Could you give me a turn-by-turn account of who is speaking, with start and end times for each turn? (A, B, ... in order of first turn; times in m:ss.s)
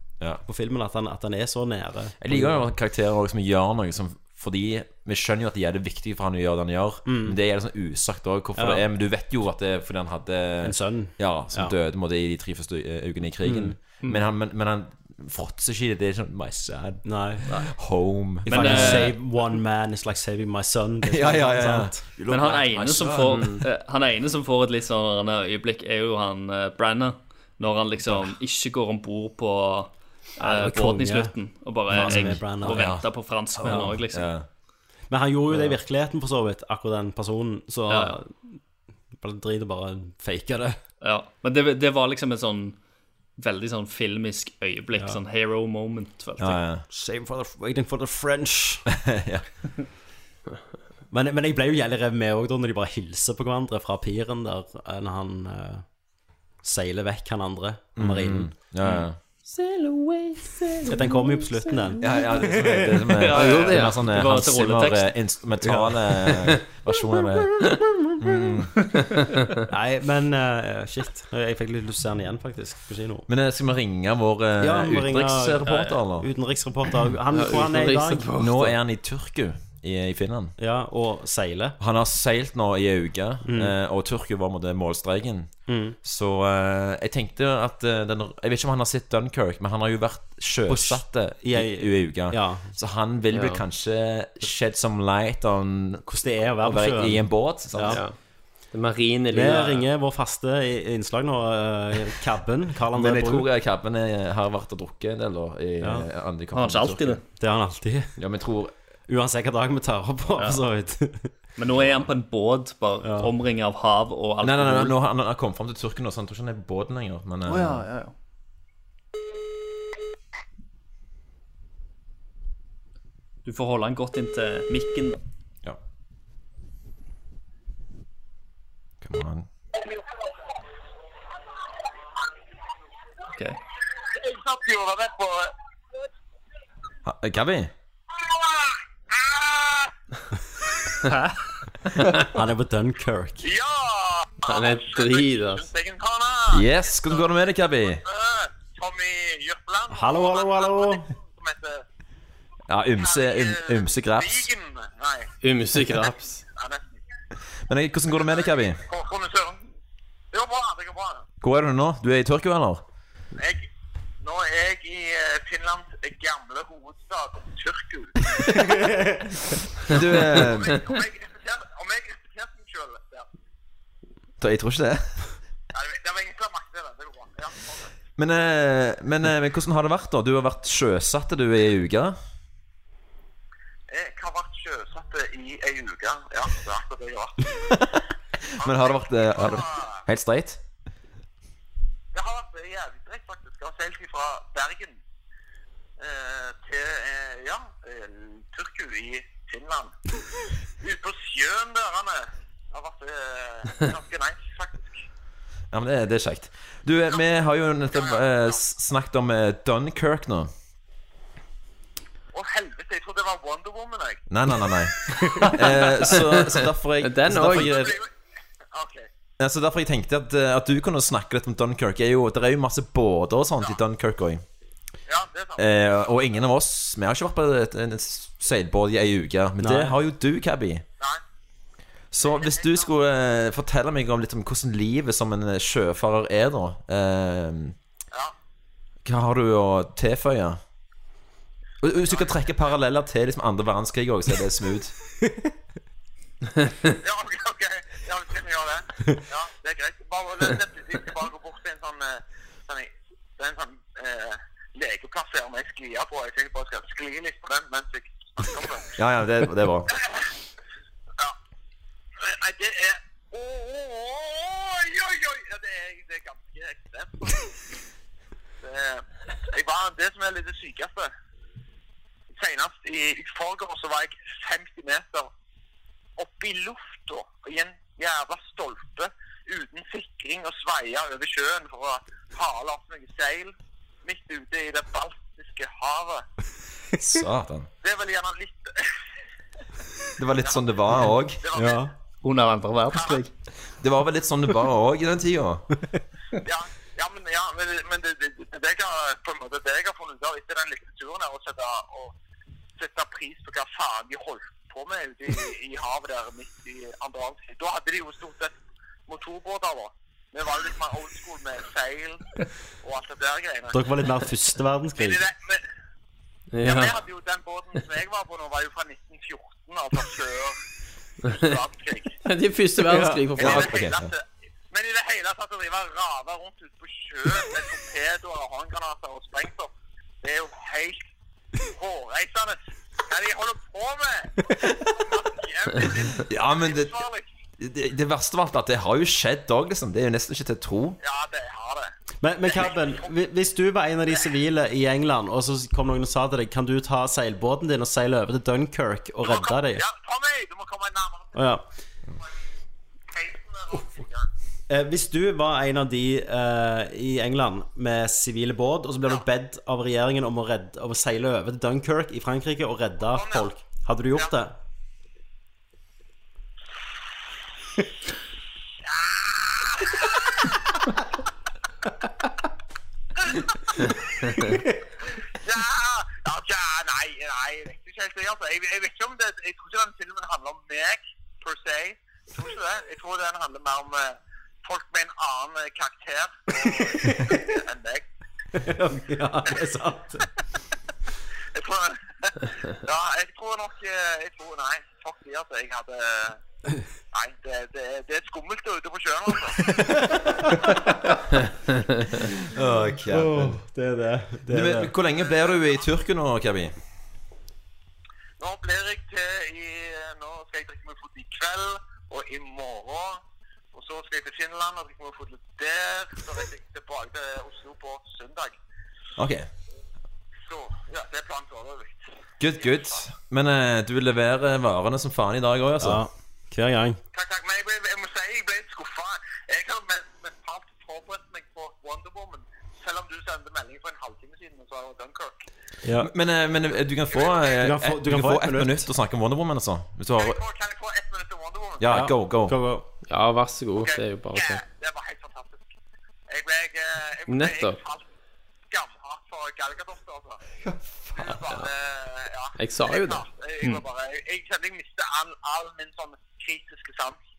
0:00.4-0:02.6 A
0:02.2-0:19.1 B
0:07.0-0:07.4 A
0:08.6-0:08.8 A
0:10.6-0:11.7 A
0:13.4-0:13.8 A
0:17.0-0:17.5 A
0:18.4-0:22.0 A
0:18.5-0:19.2 C
0:21.1-0:23.6 B
0:22.3-0:34.3 C
0:23.3-0:23.6 D
0:30.4-0:31.4 A
0:31.9-0:32.9 A
0:31.9-0:34.4 B
0:33.6-0:34.0 A
0:35.1-0:38.6 A
0:37.9-0:38.2 C
0:39.1-0:40.8 A
0:41.0-0:42.8 C
0:43.4-0:46.6 C
0:46.4-0:46.8 B
0:46.9-0:48.8 A
0:48.9-0:49.5 B
0:51.1-0:55.8 A
0:56.6-0:58.5 A
0:58.0-0:59.2 B
0:59.5-1:02.4 D
1:00.9-1:03.1 A
1:02.0-1:08.9 B
1:03.2-1:05.1 C
1:03.3-1:04.0 D
1:05.6-1:06.3 A
1:09.6-1:13.2 A
1:13.3-1:16.3 B
1:14.6-1:18.3 A
1:15.6-1:15.9 C
1:17.3-1:18.7 D
1:18.4-1:20.5 B
1:20.6-1:21.8 A
1:21.8-1:36.1 B
1:23.4-1:23.7 A
1:25.7-1:26.0 A
1:30.7-1:32.7 A
1:33.3-1:33.6 D
1:36.0-1:38.0 A
1:36.6-1:38.0 B
1:37.9-1:38.2 D
1:38.7-1:39.8 D
1:39.3-1:43.5 A
1:42.9-1:47.2 B
1:45.8-1:46.1 A
1:46.5-1:47.2 C
1:47.4-1:48.2 A
1:48.2-1:48.7 B
1:49.1-1:51.3 A
1:50.4-1:50.6 C
1:51.6-1:55.0 C
1:51.8-1:52.1 B
1:53.0-1:53.3 A
1:54.4-1:57.9 B
1:57.5-1:58.1 C
2:03.4-2:05.2 C
2:09.0-2:09.5 B
2:09.8-2:10.3 E
2:14.0-2:16.0 E
2:17.0-2:17.7 B
2:18.1-2:19.9 E
2:21.1-2:21.4 C
2:22.2-2:23.4 A
2:23.4-2:27.3 E
2:24.4-2:25.7 D
2:26.5-2:28.0 B
2:27.9-2:31.8 E
2:29.9-2:31.1 A
2:32.7-2:34.5 B
2:33.0-2:35.3 E
2:35.4-2:36.4 D
2:36.5-2:37.0 E
2:37.6-2:38.8 B
2:38.1-2:39.7 E
2:40.3-2:41.2 E
2:41.4-2:42.8 B
2:43.4-2:43.7 E
2:44.2-2:48.5 E
2:48.4-2:48.9 B
2:48.5-2:49.2 A
2:49.8-2:50.8 B
2:50.4-2:53.3 E
2:54.4-2:55.3 B
2:55.7-2:58.0 E
2:58.2-3:02.2 B
3:03.9-3:07.7 E
3:07.6-3:10.6 B
3:08.6-3:10.0 E
3:12.1-3:15.0 E
3:16.0-3:19.9 E
3:20.8-3:25.0 E
3:25.7-3:30.5 B
3:27.9-3:28.6 E
3:32.3-3:34.2 E
3:34.3-3:38.0 B
3:36.2-3:37.8 D
3:37.4-3:38.1 E
3:38.7-3:39.1 E
3:39.4-3:44.4 B
3:45.1-3:46.4 E
3:45.6-3:50.8 B
3:49.6-3:50.0 A
3:52.1-3:57.8 B
3:52.2-3:52.9 E
3:59.0-4:00.6 B
4:01.8-4:04.9 B
4:02.0-4:02.4 E
4:07.0-4:19.0 E
4:18.9-4:19.9 B
4:19.9-4:20.3 E
4:22.2-4:27.6 E
4:28.6-4:31.1 E
4:32.3-4:35.3 E
4:36.2-4:43.5 E
4:44.0-4:46.2 E
4:47.0-4:47.7 B
4:47.8-4:48.9 E
4:50.2-4:51.4 B
4:50.4-4:50.7 E
4:51.4-4:51.8 E
4:51.5-4:51.9 A
4:52.2-4:53.3 C
4:52.9-4:53.2 E
4:53.8-4:55.7 B
4:56.4-5:02.1 E
5:02.8-5:08.5 E
5:09.1-5:12.2 E
5:12.8-5:13.8 E
5:13.7-5:15.2 A
5:14.9-5:15.6 E
5:16.5-5:17.0 D
5:16.6-5:20.6 E
5:21.2-5:22.1 E
5:22.2-5:23.7 D
5:22.9-5:23.2 A
5:23.4-5:29.7 E
5:23.4-5:24.1 B
5:30.2-5:31.1 E
5:31.7-5:37.3 E
5:36.2-5:37.0 B
5:37.6-5:41.0 B
5:41.0-5:41.9 E
5:42.2-5:49.8 A
5:42.5-5:43.1 E
5:49.2-5:51.6 E
5:51.3-5:51.6 A
5:53.1-5:54.3 E
5:54.7-6:04.6 A
6:03.1-6:03.5 E
6:08.8-6:10.5 E
6:13.3-6:14.0 E
6:15.3-6:28.1 E
6:26.6-6:27.6 A
6:28.5-6:30.3 A
6:31.5-6:36.4 E
6:37.1-6:40.0 E
6:39.6-6:41.2 A
6:42.5-6:43.6 B
6:43.1-6:44.9 A
6:44.5-6:46.7 B
6:45.2-6:45.8 E
6:48.4-6:53.2 E
6:53.7-6:58.6 E
6:59.2-6:59.5 B
7:00.4-7:02.0 E
7:02.4-7:06.0 B
7:02.6-7:03.0 E
7:05.8-7:07.0 A
7:07.1-7:15.4 E
7:15.8-7:16.1 A
7:16.0-7:20.4 B
7:17.1-7:17.6 E
7:17.6-7:18.8 A
7:20.2-7:22.0 E
7:21.8-7:22.5 B
7:21.9-7:22.8 A
7:23.1-7:24.6 D
7:23.8-7:25.7 E
7:26.3-7:28.1 E
7:27.3-7:27.8 D
7:28.7-7:30.4 E
7:31.2-7:37.2 E
7:32.6-7:33.8 D